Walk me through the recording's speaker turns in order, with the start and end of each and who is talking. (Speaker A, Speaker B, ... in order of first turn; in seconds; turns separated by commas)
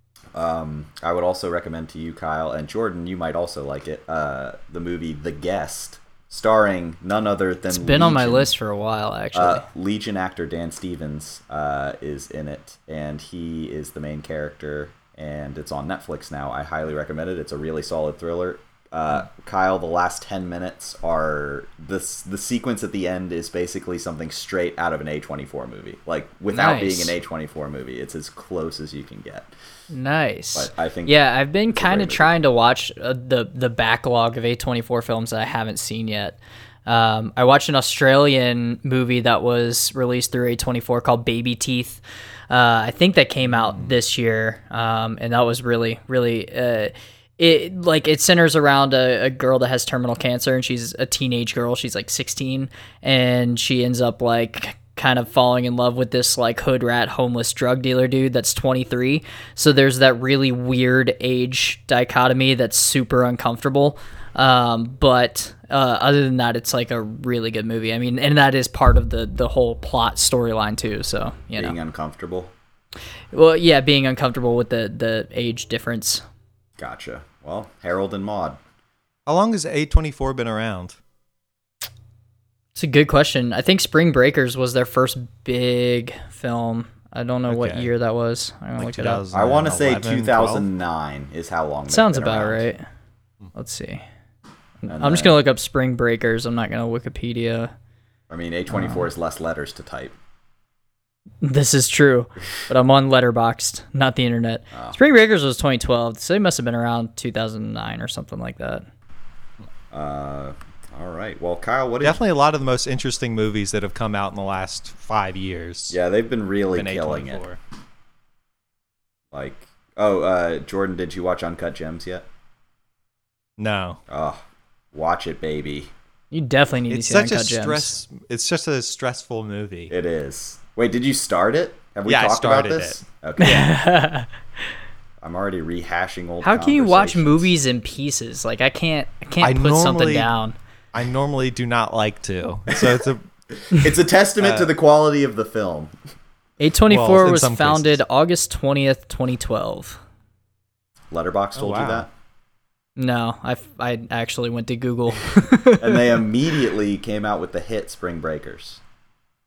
Speaker A: 0.3-8.5, Speaker B: 7.7-9.6, Speaker A: 9.3-29.5, Speaker B: 26.5-27.1, Speaker B: 29.9-71.8, Speaker A: 30.6-31.2, Speaker A: 31.7-32.3, Speaker C: 43.5-44.0, Speaker A: 71.6-72.5, Speaker B: 73.3-76.2, Speaker A: 76.8-78.6, Speaker C: 79.3-81.0, Speaker B: 82.8-89.2, Speaker C: 87.5-87.9, Speaker C: 88.8-90.7, Speaker A: 89.3-92.7, Speaker B: 91.9-92.8, Speaker B: 93.5-94.0, Speaker B: 94.8-97.7, Speaker A: 94.9-95.4, Speaker A: 98.3-100.2, Speaker B: 98.7-99.0, Speaker B: 101.4-108.8, Speaker A: 109.9-112.2, Speaker C: 112.0-116.0, Speaker A: 115.9-117.4, Speaker C: 116.8-117.6, Speaker A: 119.3-122.2, Speaker C: 123.6-124.0, Speaker A: 124.1-124.4, Speaker A: 124.9-125.9, Speaker B: 126.3-127.9, Speaker C: 126.9-129.9, Speaker A: 129.9-133.7, Speaker C: 132.1-133.0, Speaker B: 133.4-134.3, Speaker A: 135.2-137.5, Speaker B: 136.4-140.6, Speaker C: 139.4-140.3, Speaker C: 140.9-143.2, Speaker A: 142.7-143.0, Speaker A: 143.6-145.9, Speaker C: 144.4-144.7, Speaker B: 146.6-150.0, Speaker C: 146.9-148.0, Speaker A: 151.1-152.1, Speaker C: 151.6-152.1, Speaker B: 153.0-156.2, Speaker A: 155.8-158.8